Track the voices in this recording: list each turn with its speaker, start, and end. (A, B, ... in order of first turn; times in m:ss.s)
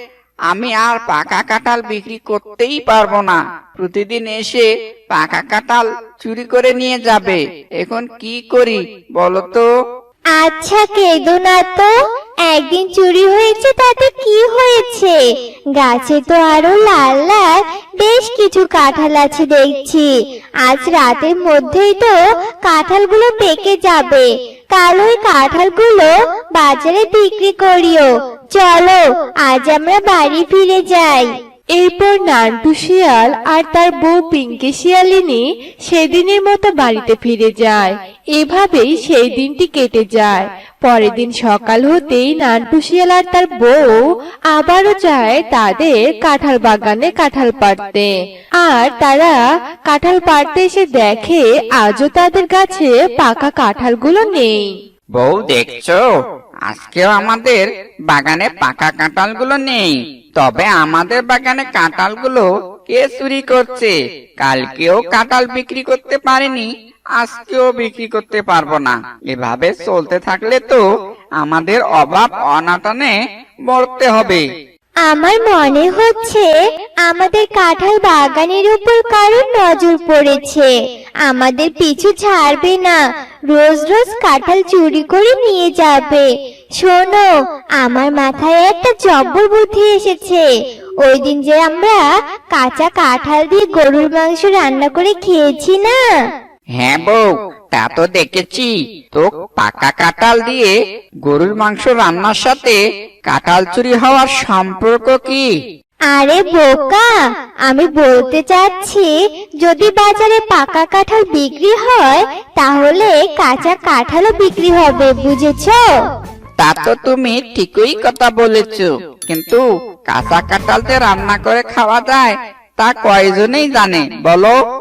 0:00.5-0:09.7 A
0:10.3-0:11.9 B
0:12.4-0:15.2 B
0:15.8-0:31.3 B
0:31.8-0:44.0 C
0:44.5-0:54.7 C
0:55.2-0:56.0 A
0:56.7-1:06.6 A
1:07.2-1:10.8 A
1:11.4-1:13.1 A
1:13.7-1:14.4 A
1:15.0-1:16.5 B
1:17.0-1:20.7 B
1:21.2-1:26.3 B
1:26.8-1:30.4 B
1:31.0-1:36.0 B
1:36.8-1:40.7 A
1:41.2-1:45.4 A
1:46.1-1:47.1 B
1:47.7-1:49.1 B
1:49.6-1:55.9 B
1:56.6-2:04.6 A